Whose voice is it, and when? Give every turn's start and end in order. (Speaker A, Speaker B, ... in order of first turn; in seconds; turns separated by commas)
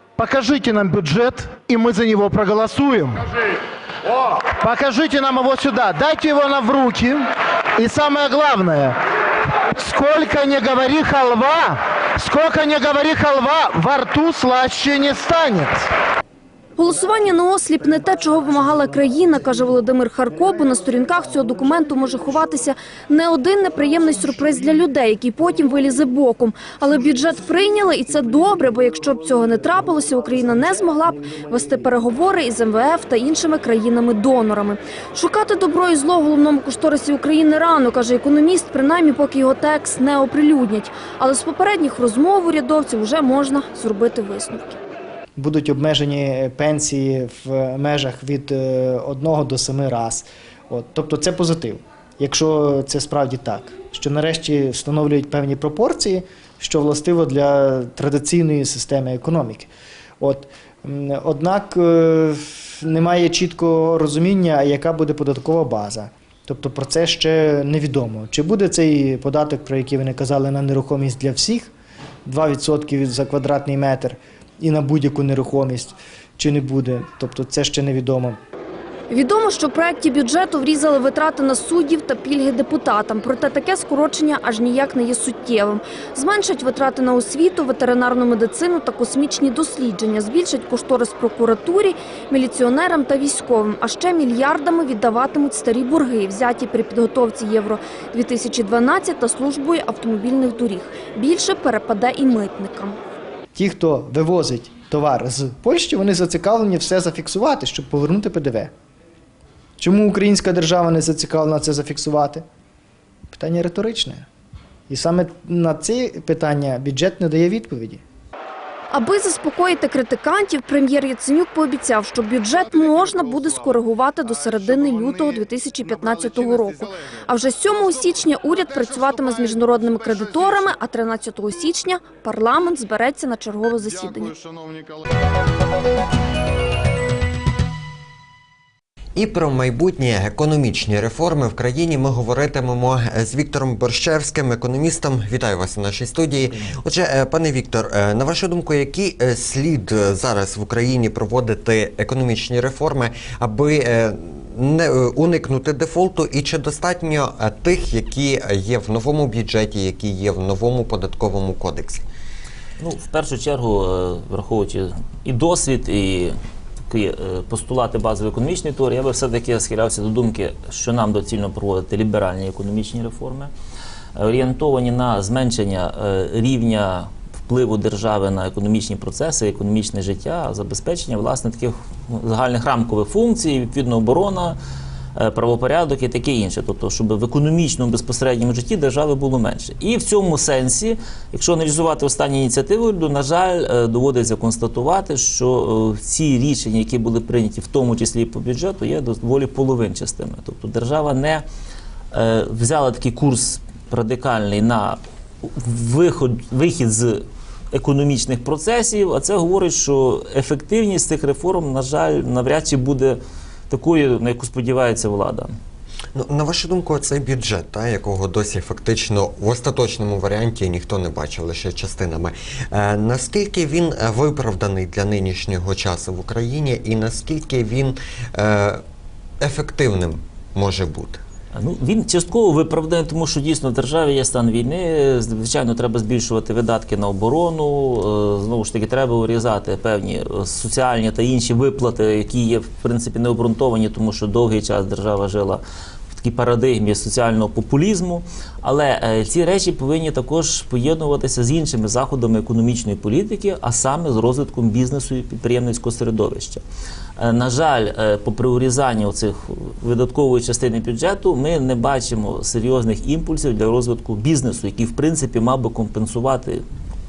Speaker A: 0.2-3.2, Speaker A: 4.6-7.2, Speaker A: 7.8-8.9, Speaker A: 9.8-15.8, Speaker B: 16.8-44.8, Speaker C: 45.4-71.7, Speaker C: 72.3-78.4, Speaker B: 79.1-103.0, Speaker C: 103.5-108.7, Speaker C: 109.8-112.4, Speaker C: 113.3-114.3, Speaker C: 114.9-118.0, Speaker B: 118.9-134.4, Speaker D: 139.2-162.1, Speaker E: 162.8-166.3, Speaker E: 166.9-173.5, Speaker E: 174.2-184.6, Speaker E: 185.2-201.4, Speaker E: 202.1-215.5, Speaker D: 216.1-228.8, Speaker D: 229.4-231.2, Speaker E: 231.5-245.6, Speaker E: 246.1-256.6, Speaker E: 257.2-266.6